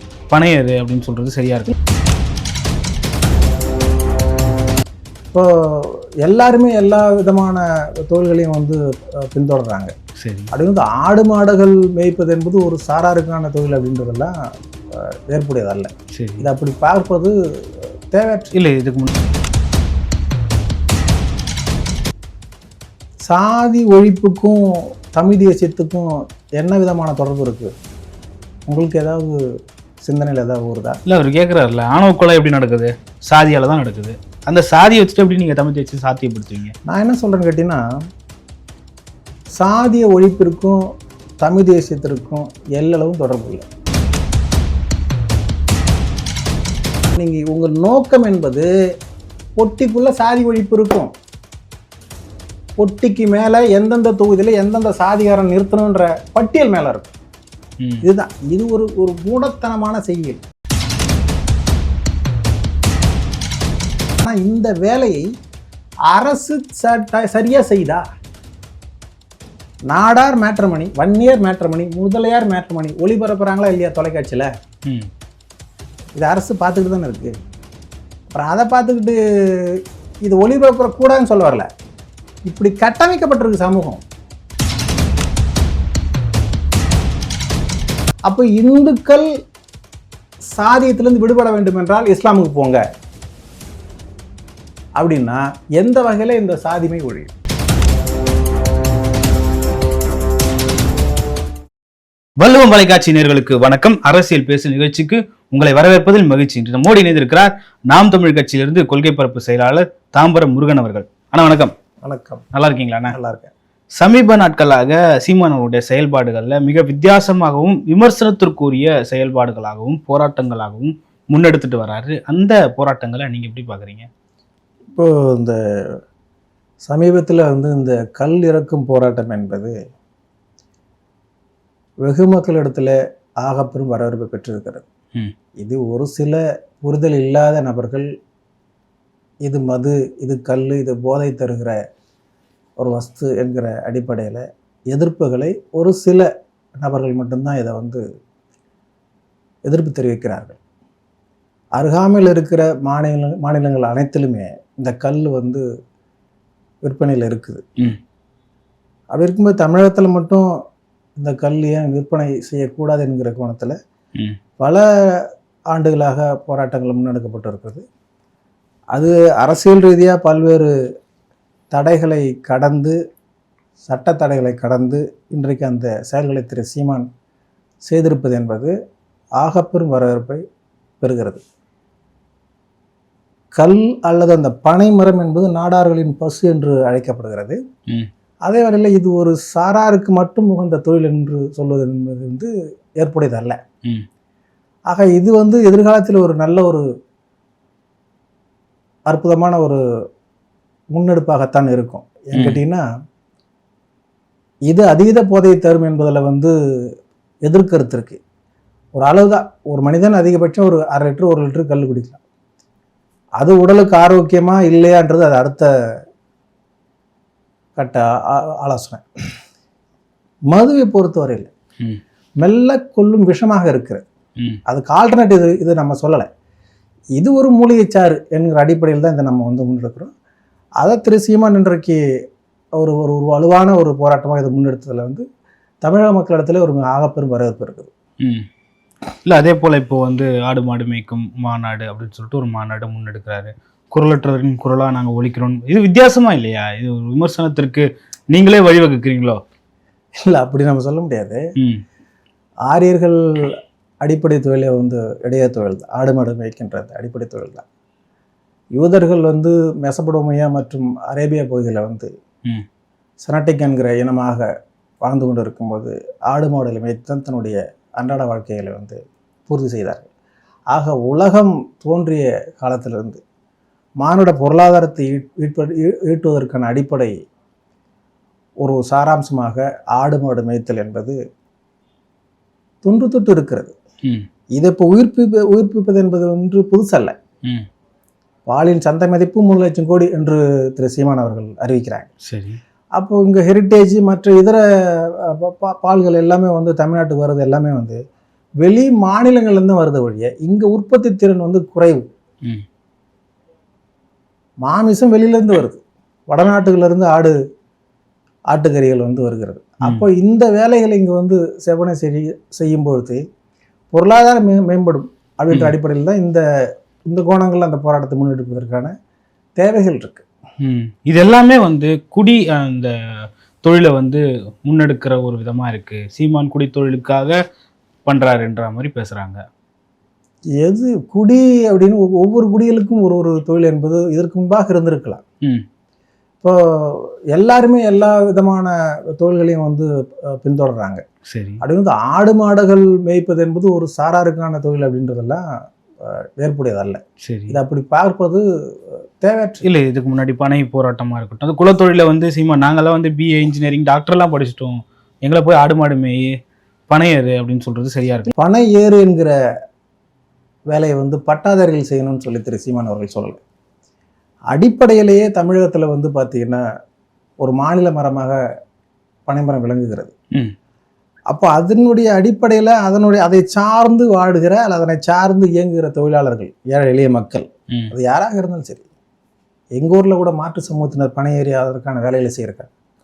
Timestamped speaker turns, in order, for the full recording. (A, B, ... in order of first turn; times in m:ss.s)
0:00.3-0:01.7 A
0:05.3-0:09.9 B
0:10.2-0:10.5 A
0:10.5-0:14.3 B
0:14.9-0:18.5 B
0:16.1-0:16.5 A
0:18.5-0:19.1 A
0:23.3-0:27.7 B
0:28.7-0:29.4 B
0:30.0-0:31.0 B
0:31.0-0:36.7 A
0:36.8-0:37.8 B
0:39.6-0:40.8 B
0:41.4-0:43.6 B
0:47.1-0:48.7 B
0:49.6-0:51.1 B
0:52.8-0:57.1 B
0:58.0-1:00.4 B
1:04.2-1:05.2 B
1:06.1-1:08.0 B
1:09.9-1:14.5 B
1:16.2-1:17.3 B
1:18.3-1:21.7 B
1:22.4-1:24.0 B
1:28.3-1:29.3 B
1:30.5-1:32.8 B
1:35.0-1:37.3 B
1:42.4-1:51.7 A
1:52.0-1:52.4 B
1:52.5-1:53.2 A
1:53.1-1:53.5 B
1:54.0-2:04.1 A
2:04.9-2:06.0 B
2:06.8-2:09.7 B
2:12.0-2:14.8 B
2:15.6-2:18.1 B
2:19.4-2:21.8 B
2:22.8-2:28.0 B
2:29.6-2:30.6 B
2:31.8-2:35.6 B
2:36.8-2:37.7 B
2:39.1-2:40.5 B
2:41.2-2:43.8 B
2:44.6-2:47.8 B
2:48.9-2:50.7 B
2:51.7-2:53.0 B
2:53.8-2:57.1 B
2:57.8-2:58.7 B
2:59.4-3:00.4 B
3:01.0-3:01.4 B
3:03.6-3:07.6 B
3:08.4-3:13.6 B
3:14.9-3:16.8 B
3:19.1-3:19.8 B
3:20.9-3:22.8 B
3:22.3-3:22.6 A
3:24.7-3:26.5 B
3:27.5-3:28.2 B
3:29.0-3:32.2 B
3:33.4-3:35.7 B
3:37.8-3:39.0 B
3:40.5-3:41.5 B
3:42.4-3:44.0 B
3:44.6-3:46.3 B
3:47.2-3:50.1 B
3:50.8-3:52.0 B
3:52.8-3:55.2 B
3:55.8-3:57.9 B
3:58.2-3:58.5 A
3:59.2-4:09.4 A
4:10.2-4:11.4 B
4:11.6-4:11.8 A
4:12.7-4:17.6 B
4:18.8-4:22.1 B
4:23.2-4:24.5 B
4:25.0-4:30.1 B
4:30.7-4:33.2 B
4:34.0-4:37.1 B
4:38.6-4:41.2 B
4:42.8-4:43.7 B
4:44.5-4:47.2 B
4:48.5-4:52.1 B
4:52.2-4:52.6 A
4:53.0-4:58.0 B
4:58.6-5:02.0 B
5:04.6-5:07.3 B
5:08.5-5:13.2 B
5:13.9-5:16.4 B
5:17.1-5:18.9 B
5:19.6-5:20.2 B
5:20.6-5:27.4 A
5:28.0-5:29.4 A
5:30.6-5:35.2 B
5:36.4-5:41.0 B
5:41.2-5:41.6 A
5:41.6-5:45.4 B
5:46.0-5:49.6 B
5:47.2-5:47.6 A
5:49.6-5:56.4 A
5:56.9-5:58.3 A
5:58.3-5:59.3 B
6:00.7-6:03.4 B
6:04.5-6:06.6 B
6:07.4-6:08.4 B
6:09.3-6:10.1 B
6:11.3-6:18.8 B
6:19.8-6:22.7 B